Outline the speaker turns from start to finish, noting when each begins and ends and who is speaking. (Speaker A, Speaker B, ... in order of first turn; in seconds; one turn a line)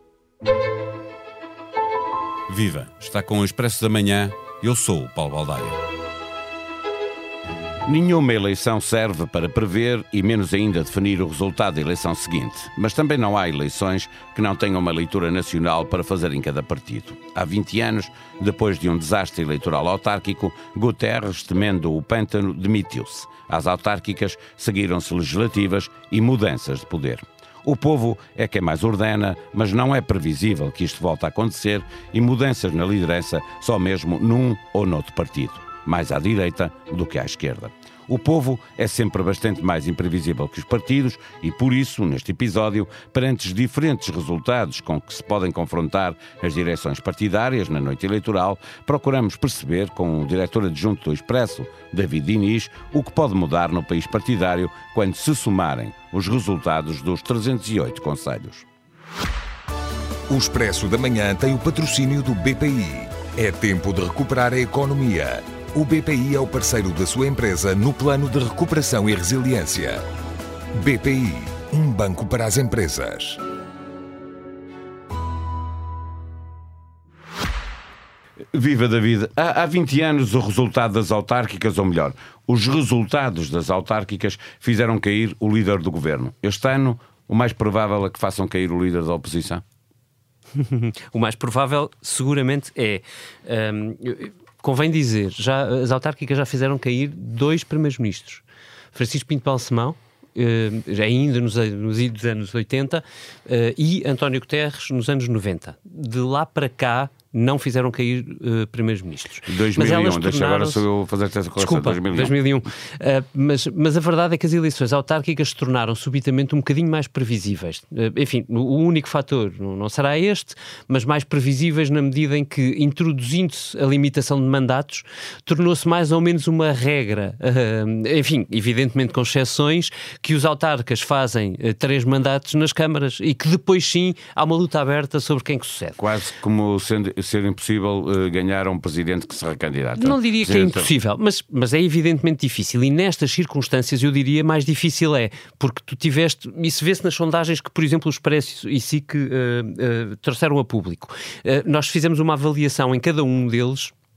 Speaker A: 2.5-5.8
Speaker A: 7.9-58.6
Speaker B: 60.3-70.0
Speaker B: 70.7-73.4
Speaker A: 78.5-89.6
Speaker C: 90.6-98.4
Speaker C: 98.9-110.8
Speaker A: 109.5-112.3
Speaker C: 111.6-136.0
Speaker A: 136.0-140.9
Speaker C: 140.0-153.9